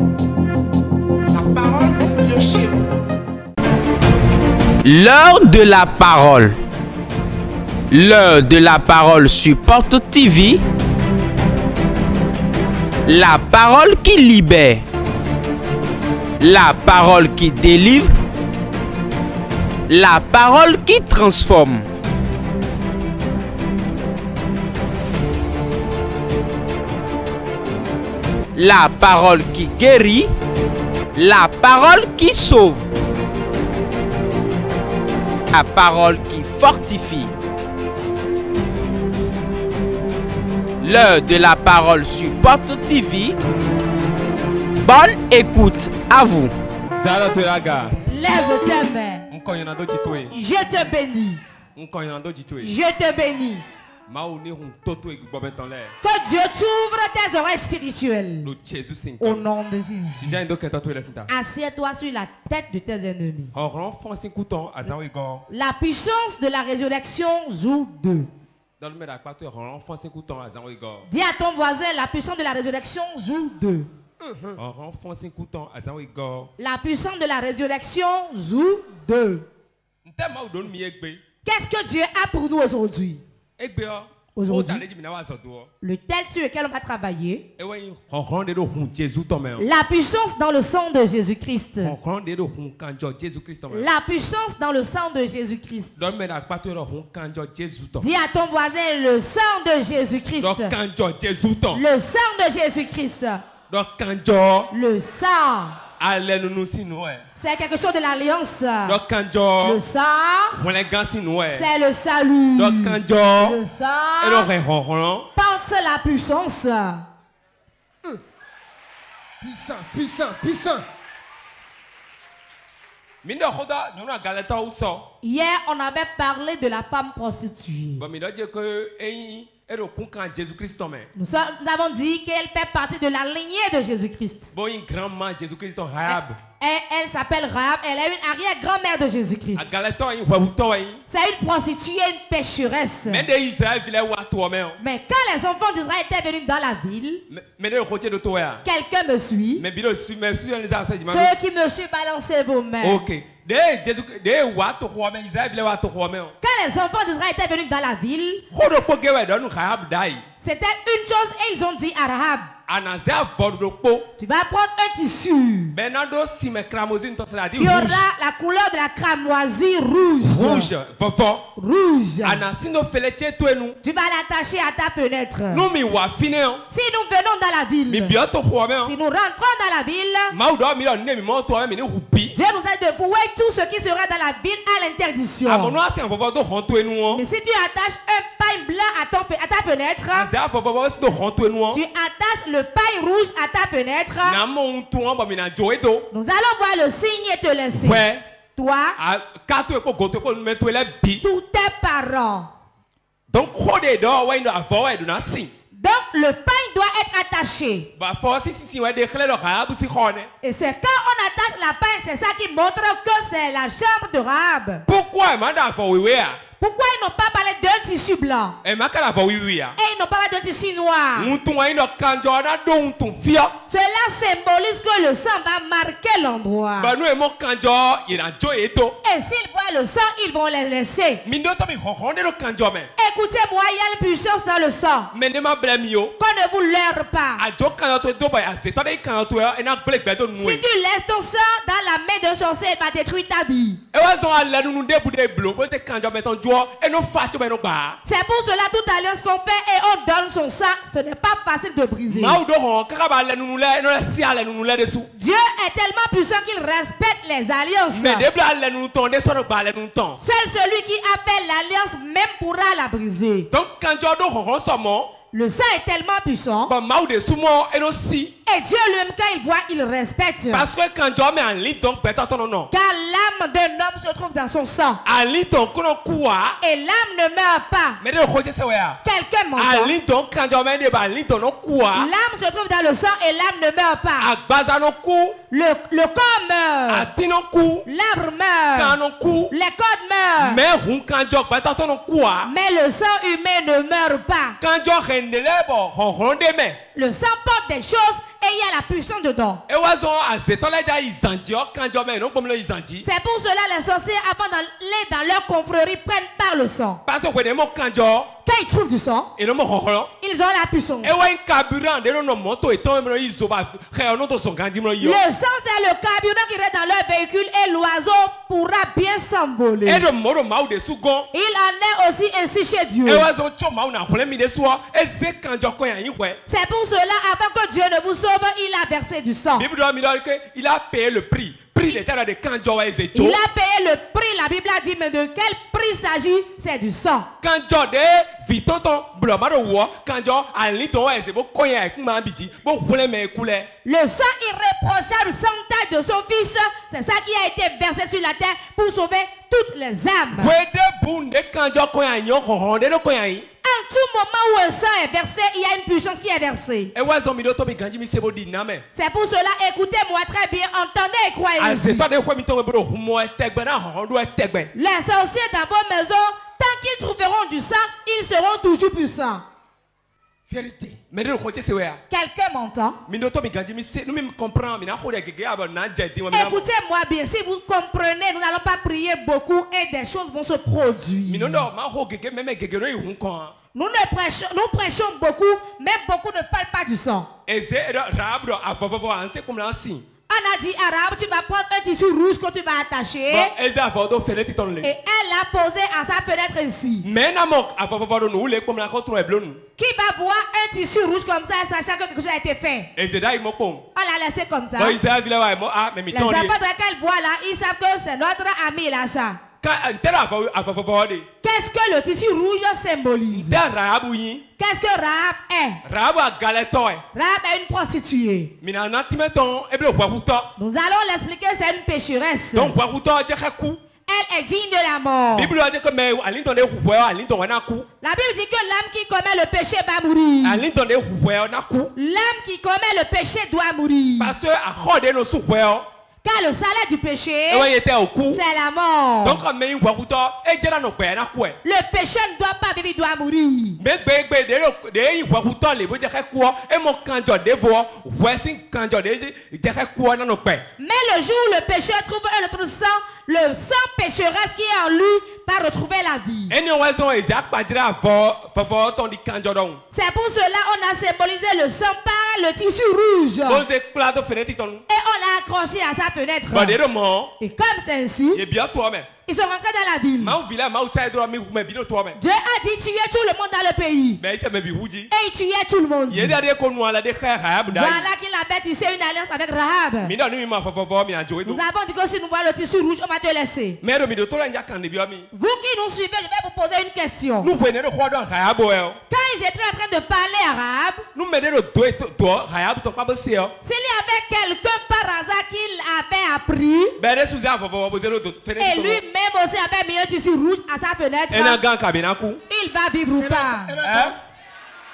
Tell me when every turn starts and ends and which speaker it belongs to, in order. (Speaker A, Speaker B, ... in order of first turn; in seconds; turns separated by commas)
Speaker A: 1.3-2.7, Speaker A: 4.8-6.5, Speaker A: 7.9-10.6, Speaker A: 13.1-14.8, Speaker A: 16.4-18.1, Speaker A: 19.9-21.9, Speaker A: 28.6-30.3, Speaker A: 31.1-32.9, Speaker A: 35.5-37.3, Speaker A: 40.8-43.4, Speaker A: 44.8-46.5, Speaker B: 47.0-48.0, Speaker C: 48.0-49.2, Speaker B: 49.3-50.3, Speaker C: 50.3-51.4, Speaker B: 51.8-52.7, Speaker C: 52.6-53.6, Speaker B: 54.1-55.9, Speaker C: 56.0-58.5, Speaker B: 58.4-59.4, Speaker C: 59.2-60.4, Speaker B: 60.2-61.3, Speaker C: 61.3-63.5, Speaker B: 63.5-65.4, Speaker C: 65.5-68.3, Speaker B: 68.8-71.1, Speaker C: 71.1-73.9, Speaker D: 74.2-74.6, Speaker B: 74.6-76.5, Speaker C: 76.6-79.4, Speaker B: 80.0-81.2, Speaker C: 81.4-83.2, Speaker B: 83.6-85.7, Speaker C: 84.3-84.8, Speaker C: 85.8-87.4, Speaker B: 87.6-89.6, Speaker C: 89.6-91.9, Speaker B: 91.8-93.9, Speaker C: 93.7-96.0, Speaker B: 96.0-98.0, Speaker C: 98.0-100.7, Speaker B: 100.4-101.8, Speaker C: 101.7-103.4, Speaker B: 103.7-104.7, Speaker C: 104.7-105.8, Speaker B: 106.0-107.2, Speaker C: 107.4-109.0, Speaker B: 108.8-109.8, Speaker C: 109.6-110.6, Speaker B: 110.6-111.7, Speaker C: 111.5-114.5, Speaker B: 112.6-113.6, Speaker B: 114.2-115.3, Speaker C: 115.3-117.0, Speaker D: 119.4-120.8, Speaker B: 123.2-125.1, Speaker C: 125.2-128.0, Speaker B: 128.0-131.1, Speaker C: 131.2-134.5, Speaker B: 134.5-136.4, Speaker C: 136.1-139.7, Speaker B: 139.6-141.0, Speaker C: 141.1-143.2, Speaker B: 143.1-144.8, Speaker C: 144.8-147.2, Speaker B: 147.3-148.6, Speaker C: 148.6-149.6, Speaker B: 149.6-151.3, Speaker C: 151.1-153.0, Speaker B: 152.8-156.3, Speaker C: 156.4-158.4, Speaker B: 158.5-160.2, Speaker C: 160.4-162.5, Speaker B: 162.7-164.1, Speaker C: 164.2-165.7, Speaker B: 165.7-168.0, Speaker C: 167.6-170.7, Speaker B: 170.3-171.4, Speaker C: 171.6-172.4, Speaker B: 172.2-173.8, Speaker C: 173.8-175.6, Speaker B: 175.5-176.6, Speaker C: 176.7-178.1, Speaker B: 177.9-178.9, Speaker C: 178.8-180.3, Speaker B: 180.3-182.3, Speaker C: 182.3-185.8, Speaker B: 185.4-187.2, Speaker C: 187.1-190.3, Speaker B: 190.1-191.8, Speaker C: 191.7-194.4, Speaker B: 194.2-196.1, Speaker C: 196.1-198.0, Speaker B: 197.8-198.2, Speaker C: 198.6-199.0, Speaker B: 199.0-201.2, Speaker C: 201.2-202.5, Speaker B: 203.3-205.5, Speaker C: 205.8-207.9, Speaker B: 208.0-210.3, Speaker C: 210.4-214.8, Speaker B: 214.9-216.4, Speaker C: 216.6-218.6, Speaker B: 218.6-219.7, Speaker C: 219.8-221.3, Speaker B: 221.2-223.5, Speaker C: 223.7-226.9, Speaker B: 226.8-229.0, Speaker C: 229.0-231.2, Speaker B: 231.2-232.9, Speaker C: 233.0-235.1, Speaker B: 235.1-236.1, Speaker C: 236.2-237.4, Speaker B: 237.4-240.6, Speaker C: 240.3-243.8, Speaker B: 243.9-248.0, Speaker C: 248.0-252.4, Speaker B: 252.1-255.1, Speaker C: 255.2-258.2, Speaker B: 257.9-260.2, Speaker C: 260.2-263.5, Speaker B: 263.5-265.1, Speaker C: 265.3-266.7, Speaker B: 266.7-268.3, Speaker C: 268.4-270.7, Speaker B: 270.5-272.7, Speaker C: 272.7-275.0, Speaker B: 275.0-276.6, Speaker C: 276.6-278.0, Speaker B: 278.0-279.0, Speaker C: 279.0-279.9, Speaker B: 279.6-282.1, Speaker C: 281.9-284.3, Speaker B: 284.2-285.4, Speaker C: 285.5-287.1, Speaker B: 286.9-287.9, Speaker C: 287.9-288.9, Speaker B: 288.7-289.5, Speaker C: 289.5-290.6, Speaker B: 290.4-292.5, Speaker C: 292.4-294.6, Speaker B: 294.6-296.8, Speaker C: 296.9-299.6, Speaker B: 299.7-303.1, Speaker C: 303.0-307.0, Speaker B: 307.1-308.3, Speaker C: 308.4-309.3, Speaker B: 309.4-310.1, Speaker C: 310.2-311.2, Speaker B: 311.0-315.2, Speaker C: 315.0-320.0, Speaker B: 319.9-321.3, Speaker C: 321.3-323.3, Speaker B: 323.1-326.4, Speaker C: 326.5-329.6, Speaker B: 329.6-333.4, Speaker C: 333.1-337.3, Speaker B: 337.4-343.7, Speaker C: 343.8-350.5, Speaker B: 350.4-353.5, Speaker C: 353.6-356.9, Speaker B: 356.9-358.8, Speaker C: 358.9-362.0, Speaker B: 361.6-364.7, Speaker C: 364.7-369.4, Speaker D: 370.5-371.0, Speaker B: 371.1-372.0, Speaker C: 372.1-373.0, Speaker B: 373.1-376.6, Speaker C: 376.3-381.6, Speaker B: 381.3-383.5, Speaker C: 383.7-387.3, Speaker B: 387.5-390.0, Speaker C: 390.3-393.5, Speaker B: 393.3-394.9, Speaker C: 394.8-397.0, Speaker B: 397.0-399.6, Speaker C: 399.8-402.9, Speaker B: 402.9-403.8, Speaker C: 403.9-405.0, Speaker B: 404.8-406.5, Speaker C: 406.1-409.4, Speaker B: 409.6-411.3, Speaker C: 411.4-413.6, Speaker B: 413.3-414.4, Speaker C: 414.6-415.8, Speaker B: 415.8-417.0, Speaker C: 417.1-418.5, Speaker B: 418.6-420.5, Speaker C: 420.6-422.7, Speaker B: 422.5-423.8, Speaker C: 424.1-425.5, Speaker B: 425.3-427.9, Speaker C: 428.0-430.6, Speaker B: 430.4-431.9, Speaker C: 431.9-434.3, Speaker B: 434.2-435.9, Speaker C: 436.2-437.7, Speaker B: 437.5-438.4, Speaker C: 438.3-439.4, Speaker B: 439.2-441.6, Speaker C: 441.6-443.8, Speaker B: 443.8-450.6, Speaker C: 450.8-456.5, Speaker B: 456.5-459.8, Speaker C: 459.9-463.6, Speaker B: 463.4-464.8, Speaker C: 464.9-466.8, Speaker B: 466.5-467.3, Speaker C: 467.4-468.4, Speaker B: 468.3-469.1, Speaker C: 469.2-470.4, Speaker B: 470.2-472.2, Speaker C: 472.2-474.2, Speaker B: 474.2-475.1, Speaker C: 475.1-476.3, Speaker B: 476.1-478.0, Speaker C: 477.7-480.1, Speaker B: 480.0-481.6, Speaker C: 481.4-483.8, Speaker B: 483.8-485.3, Speaker C: 485.3-487.5, Speaker B: 487.4-489.0, Speaker C: 489.1-491.0, Speaker B: 491.1-493.5, Speaker C: 493.6-496.9, Speaker B: 497.0-499.0, Speaker C: 498.6-501.6, Speaker B: 501.3-502.4, Speaker C: 502.5-503.7, Speaker D: 503.2-504.1, Speaker B: 503.8-504.1